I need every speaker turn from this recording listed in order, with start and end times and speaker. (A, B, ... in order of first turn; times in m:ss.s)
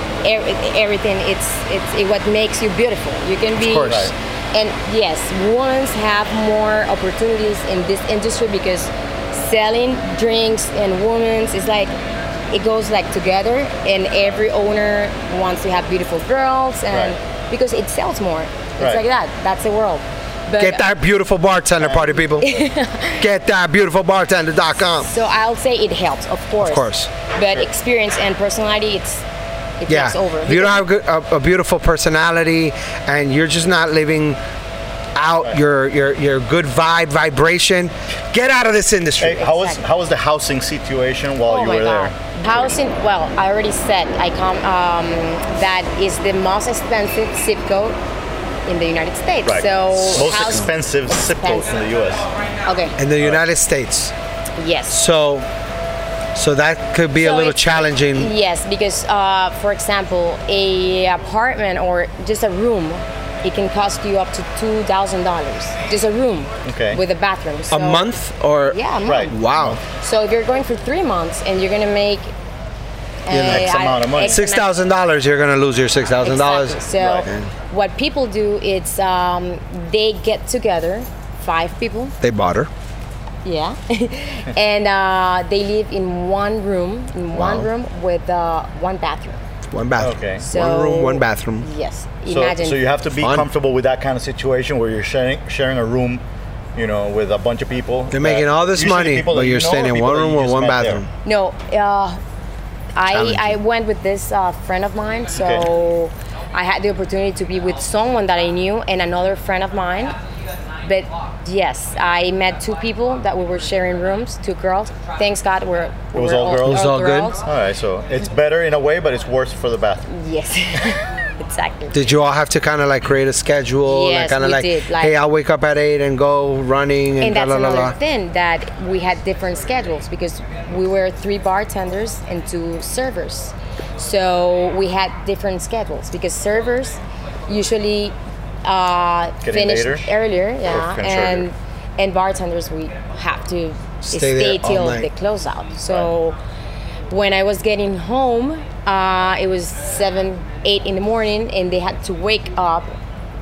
0:00.2-0:11.9 A
0:03.6-0:04.1 B
0:03.9-0:04.1 C
0:12.5-0:20.8 A
0:20.6-0:22.5 B
0:21.8-0:22.3 C
0:22.4-0:23.3 A
0:23.2-0:25.1 B
0:25.0-0:29.2 A
0:26.6-0:27.1 B
0:29.8-0:30.8 A
0:29.9-0:34.4 B
0:35.2-0:39.4 B
0:39.2-0:42.8 C
0:39.4-0:39.8 A
0:41.5-0:48.0 A
0:48.6-0:51.8 A
0:49.4-0:52.2 C
0:52.6-0:53.0 A
0:53.0-0:54.1 B
0:54.6-0:55.0 A
0:54.9-0:55.4 B
0:56.3-0:58.3 B
0:57.2-1:08.1 A
1:06.6-1:07.0 C
1:07.7-1:09.8 B
1:08.7-1:12.3 A
1:09.1-1:09.8 C
1:13.2-1:14.7 A
1:13.3-1:17.5 B
1:13.4-1:14.4 C
1:16.2-1:22.2 A
1:17.0-1:17.3 C
1:22.2-1:22.7 B
1:23.4-1:29.4 A
1:27.3-1:27.7 B
1:29.7-1:31.7 B
1:30.0-1:30.4 C
1:30.4-1:32.8 A
1:32.3-1:36.2 C
1:33.2-1:33.5 B
1:36.8-1:41.0 C
1:38.1-1:41.1 B
1:41.2-1:42.2 A
1:42.9-1:50.1 A
1:43.1-1:43.6 B
1:45.4-1:45.6 C
1:50.8-1:57.4 A
1:56.1-1:56.8 C
1:56.6-1:57.3 B
1:57.4-2:00.0 C
2:00.0-2:02.0 A
2:01.9-2:07.9 B
2:03.8-2:05.2 A
2:07.2-2:26.4 A
2:19.4-2:20.1 C
2:20.7-2:21.4 C
2:24.0-2:25.1 B
2:27.1-2:32.9 A